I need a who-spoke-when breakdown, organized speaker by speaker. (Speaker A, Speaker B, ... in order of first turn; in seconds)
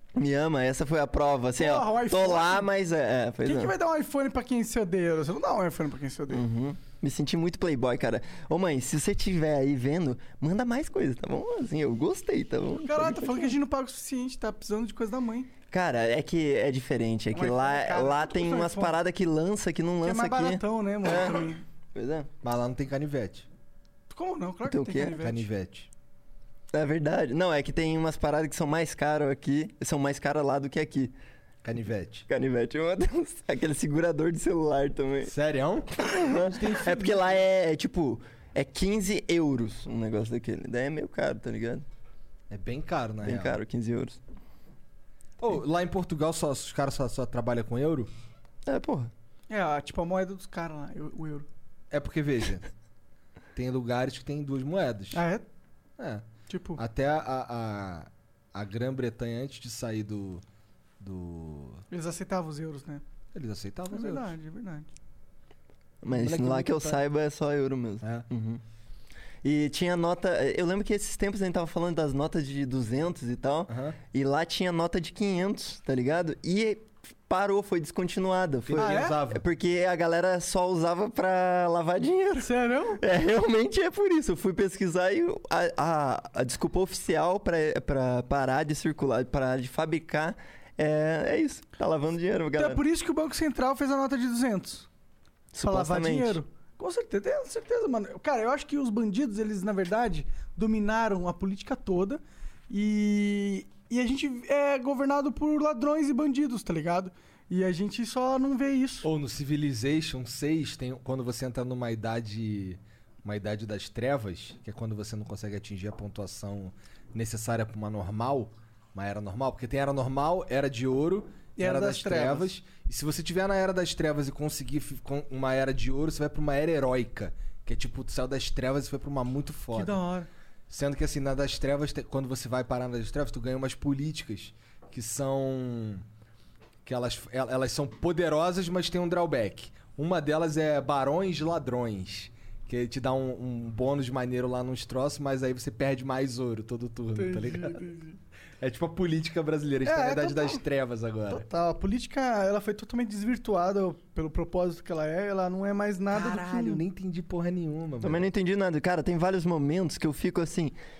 Speaker A: 0.1-3.7, 6.3-13.6, 15.7-22.3, 24.6-25.2, 26.7-31.1, 32.3-35.3, 36.0-41.9, 43.2-44.2, 48.6-49.1, 66.0-68.6, 69.4-92.8, 95.5-96.4, 158.0-160.8
Speaker B: 1.6-2.7, 3.4-6.4, 12.8-15.5, 17.3-18.9, 20.0-21.6, 24.1-25.5, 49.5-51.5, 55.1-55.5, 56.5-56.8, 61.9-63.0, 63.9-64.9, 78.8-79.2, 82.4-83.0, 92.5-94.9, 95.6-109.1, 121.6-122.5, 129.7-130.3, 147.1-148.2, 149.8-150.6, 151.3-156.8
Speaker C: 22.4-23.5, 25.2-25.9, 31.6-32.2, 35.2-37.4, 42.5-43.6, 45.4-48.1, 51.9-52.7, 53.5-55.2, 56.0-56.2, 56.8-60.4, 61.0-61.8, 63.3-64.3, 66.1-67.0, 68.0-68.3, 73.7-74.0, 78.7-79.4, 109.0-130.0, 130.7-136.0, 136.8-147.8, 148.6-151.4, 156.1-158.3